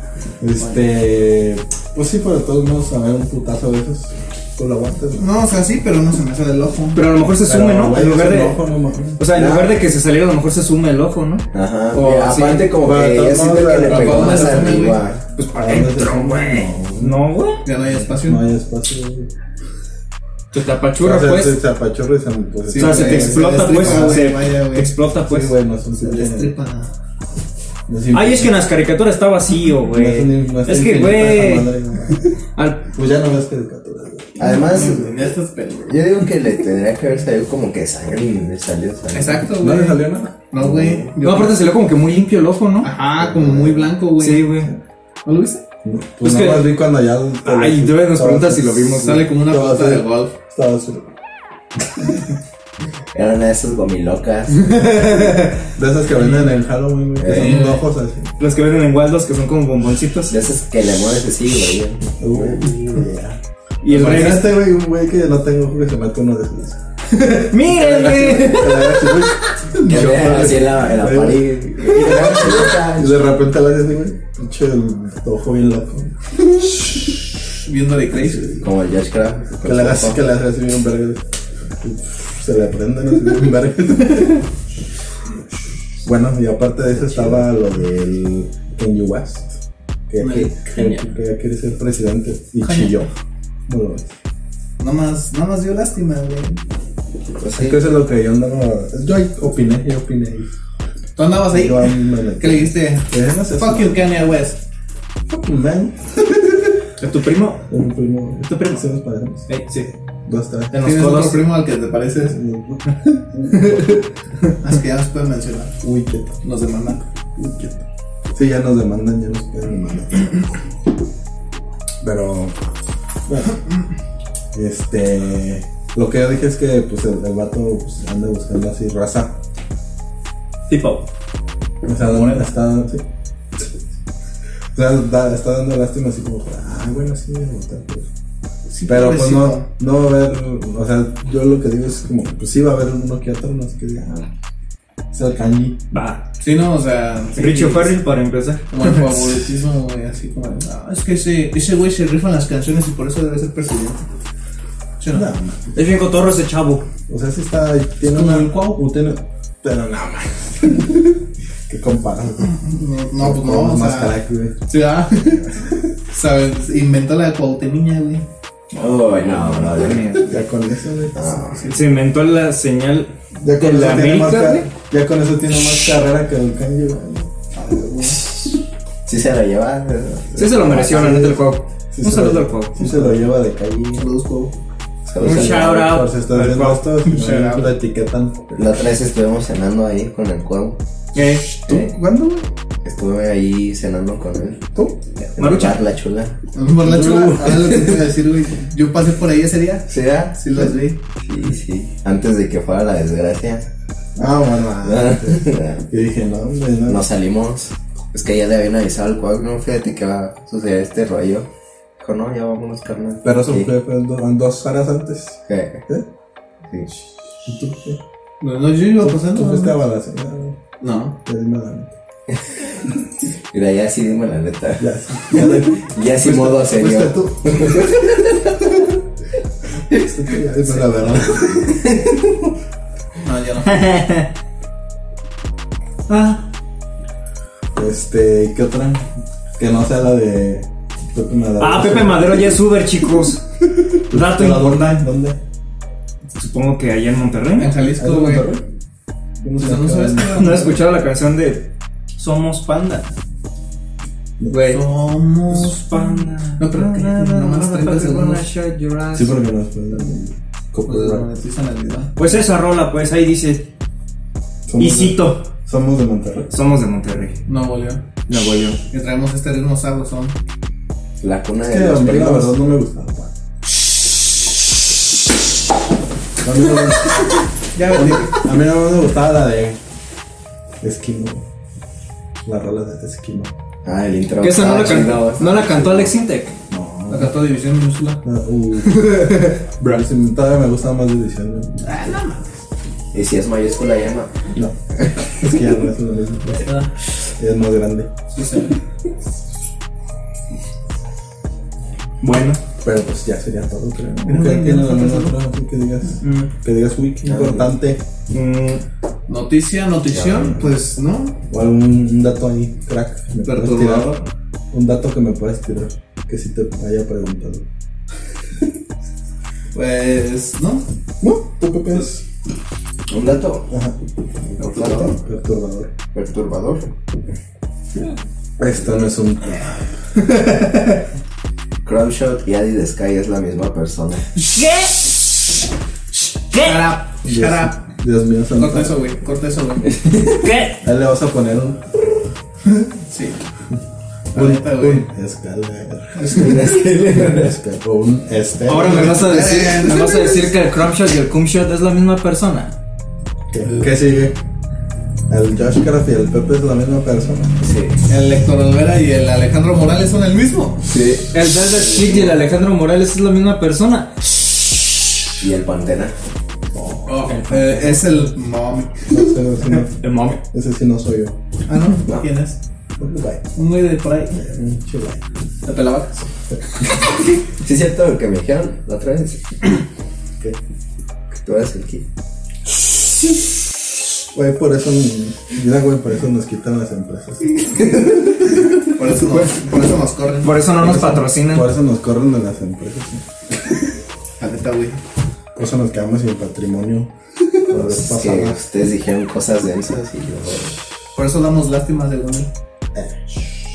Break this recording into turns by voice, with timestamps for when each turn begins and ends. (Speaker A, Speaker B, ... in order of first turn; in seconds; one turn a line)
Speaker A: 0.4-5.4
Speaker B: 5.2-7.0
Speaker C: 6.9-8.6
Speaker A: 7.3-9.2
Speaker C: 9.2-12.7
Speaker D: 9.3-9.7
Speaker D: 11.5-15.2
Speaker A: 12.8-14.8
Speaker B: 13.8-15.0
Speaker C: 15.3-17.6
Speaker A: 15.5-17.2
Speaker B: 17.6-18.4
Speaker A: 17.8-19.3
Speaker C: 20.5-21.6
Speaker A: 21.0-24.3
Speaker B: 22.7-24.9
Speaker C: 22.7-25.5
Speaker A: 25.2-26.5
Speaker B: 26.0-26.9
Speaker A: 27.9-28.6
Speaker C: 28.1-31.7
Speaker A: 29.9-35.1
Speaker C: 32.5-32.9
Speaker D: 34.4-35.2
Speaker B: 34.4-36.0
Speaker D: 35.8-39.5
Speaker B: 39.1-41.6
Speaker A: 39.6-41.0
Speaker D: 40.6-41.1
Speaker C: 41.2-42.9
Speaker B: 42.8-44.5
Speaker D: 43.2-43.8
Speaker A: 43.3-43.9
Speaker C: 44.2-44.7
Speaker B: 45.2-45.6
Speaker A: 45.8-51.1
Speaker C: 46.2-46.8
Speaker C: 47.4-49.3
Speaker B: 49.0-50.3
Speaker D: 53.1-54.9
Speaker C: 54.7-55.6
Speaker A: 55.8-58.3
Speaker D: 57.2-57.7
Speaker B: 57.2-57.8
Speaker C: 58.4-60.4
Speaker D: 60.3-62.5
Speaker A: 62.2-66.8
Speaker C: 63.8-64.6
Speaker C: 67.1-69.5
Speaker A: 67.6-77.0
Speaker B: 69.7-70.5
Speaker D: 69.8-73.3
Speaker B: 77.6-78.6
Speaker A: 78.2-78.4
Speaker D: 78.6-80.2
Speaker A: 79.6-81.2
Speaker A: 81.8-84.5
Speaker A: 86.0-89.6
Speaker D: 86.9-87.5
Speaker A: 90.1-93.1
Speaker B: 90.2-91.0
Speaker B: 92.6-93.1
Speaker A: 93.7-94.1
Speaker B: 94.8-96.6
Speaker D: 97.4-97.9
Speaker A: 97.5-100.5
Speaker B: 101.2-104.6
Speaker A: 101.5-104.0
Speaker A: 105.3-106.8
Speaker C: 107.0-107.7
Speaker A: 107.7-109.5
Speaker C: 108.5-108.8
Speaker C: 109.5-109.9
Speaker A: 110.2-110.8
Speaker C: 110.7-111.5
Speaker B: 110.8-112.3
Speaker A: 112.2-114.0
Speaker B: 114.6-115.8
Speaker A: 115.8-116.4
Speaker B: 116.4-117.0
Speaker A: 117.4-117.8
Speaker A: 118.3-120.3
Speaker A: 122.0-122.5
Speaker A: 123.3-123.6
Speaker A: 124.5-129.4
Speaker C: 130.7-131.1
Speaker A: 131.8-133.0
Speaker C: 132.0-132.5
Speaker A: 134.7-138.1
Speaker B: 138.7-139.7
Speaker A: 138.9-144.3
Speaker A: 145.1-145.8
Speaker C: 145.9-146.2
Speaker B: 146.4-147.9
Speaker C: 147.3-149.4
Speaker B: 148.7-154.0
Speaker B: 155.0-155.3
Speaker A: 155.1-155.8
Speaker C: 155.7-156.8
Speaker A: 157.1-162.6
Speaker B: 158.1-158.8
Speaker B: 162.6-164.1
Speaker A: 163.2-164.5
Speaker B: 164.7-165.5
Speaker B: 166.1-168.2
Speaker D: 168.7-170.0
Speaker C: 169.2-170.4
Speaker A: 170.3-171.2
Speaker D: 171.1-171.7
Speaker B: 171.4-171.8
Speaker C: 171.7-174.7
Speaker A: 173.4-177.3
Speaker B: 177.5-178.2
Speaker D: 178.0-181.2
Speaker C: 180.4-182.8
Speaker A: 180.8-184.1
Speaker B: 184.0-184.5
Speaker D: 185.1-185.8
Speaker A: 185.1-188.6
Speaker C: 185.2-186.8
Speaker B: 187.0-187.7
Speaker D: 188.5-190.8
Speaker C: 191.1-191.6
Speaker A: 191.6-192.5
Speaker D: 191.7-191.9
Speaker D: 192.8-194.7
Speaker A: 194.7-195.0
Speaker C: 195.3-195.8
Speaker D: 195.3-196.4
Speaker B: 196.5-201.0
Speaker A: 196.8-197.9
Speaker D: 199.9-200.4
Speaker D: 201.2-203.7
Speaker A: 204.2-207.1
Speaker D: 204.8-205.8
Speaker D: 206.9-213.7
Speaker A: 213.2-216.1
Speaker D: 215.4-215.8
Speaker A: 217.4-218.0
Speaker B: 218.4-219.7
Speaker A: 219.0-220.6
Speaker B: 220.8-221.2
Speaker A: 221.2-221.9
Speaker D: 223.5-228.1
Speaker A: 224.8-228.2
Speaker A: 229.9-232.0
Speaker B: 233.2-233.8
Speaker C: 233.6-234.3
Speaker C: 236.1-236.5
Speaker A: 237.7-239.1
Speaker A: 239.6-242.6
Speaker C: 241.6-243.4
Speaker A: 244.1-245.4
Speaker C: 244.1-245.0
Speaker C: 246.3-247.7
Speaker B: 247.6-248.5
Speaker A: 247.9-248.6
Speaker A: 249.4-250.7
Speaker B: 249.6-250.8
Speaker C: 250.2-253.1
Speaker C: 254.5-254.8
Speaker B: 254.7-258.4
Speaker C: 255.5-259.4
Speaker A: 259.1-261.2
Speaker B: 260.9-262.1
Speaker C: 262.1-263.6
Speaker A: 264.7-266.5
Speaker C: 264.8-265.5
Speaker C: 266.5-267.4
Speaker B: 267.5-268.0
Speaker C: 268.3-268.8
Speaker B: 268.9-270.3
Speaker D: 271.2-272.5
Speaker A: 271.6-273.3
Speaker A: 276.4-277.2
Speaker B: 277.7-278.4
Speaker A: 277.8-279.8
Speaker A: 280.8-281.4
Speaker A: 282.4-283.5
Speaker D: 283.8-286.1
Speaker C: 284.4-286.6
Speaker A: 286.7-287.3
Speaker B: 287.1-288.2
Speaker A: 288.2-292.0
Speaker B: 291.8-292.4
Speaker D: 293.1-294.3
Speaker A: 294.5-296.7
Speaker B: 296.6-296.9
Speaker A: 297.4-298.1
Speaker B: 298.3-298.7
Speaker C: 302.2-302.6
Speaker A: 302.7-308.0
Speaker B: 304.3-305.3
Speaker C: 306.2-306.5
Speaker D: 307.3-307.6
Speaker C: 308.3-308.8
Speaker B: 309.3-311.4
Speaker D: 310.1-310.7
Speaker A: 311.5-317.6
Speaker B: 313.4-314.2
Speaker B: 319.7-320.9
Speaker A: 321.2-322.2
Speaker D: 323.1-323.7
Speaker A: 323.6-324.0
Speaker D: 324.6-325.1
Speaker A: 324.6-325.9
Speaker D: 326.1-326.9
Speaker A: 328.6-329.6
Speaker C: 330.4-330.7
Speaker D: 331.8-334.2
Speaker C: 334.4-335.1
Speaker C: 336.5-336.9
Speaker B: 336.6-337.8
Speaker A: 337.2-339.0
Speaker B: 338.6-339.9
Speaker D: 339.9-340.3
Speaker C: 340.2-340.8
Speaker A: 340.8-341.8
Speaker B: 343.1-343.4
Speaker B: 344.3-345.1
Speaker A: 344.3-349.5
Speaker B: 346.1-346.7
Speaker D: 346.3-347.6
Speaker C: 348.6-352.7
Speaker B: 348.8-350.4
Speaker A: 353.5-354.4
Speaker A: 355.3-357.6
Speaker D: 357.6-358.0
Speaker B: 358.1-360.8
Speaker D: 360.8-362.3
Speaker C: 361.3-364.3
Speaker D: 365.4-366.1
Speaker A: 366.7-367.4
Speaker B: 367.1-369.1
Speaker C: 367.3-368.2
Speaker A: 369.1-370.0
Speaker C: 369.9-370.4
Speaker A: 370.5-371.4
Speaker B: 371.7-372.6
Speaker A: 373.0-373.5
Speaker B: 373.5-374.4
Speaker A: 374.3-375.2
Speaker B: 375.6-376.2
Speaker D: 377.6-379.4
Speaker D: 381.3-382.1
Speaker A: 384.3-387.7
Speaker B: 388.9-390.7
Speaker C: 390.4-391.7
Speaker A: 390.8-393.8
Speaker B: 394.4-395.0
Speaker A: 395.6-397.1
Speaker A: 397.7-398.6
Speaker D: 397.7-400.7
Speaker B: 401.1-402.5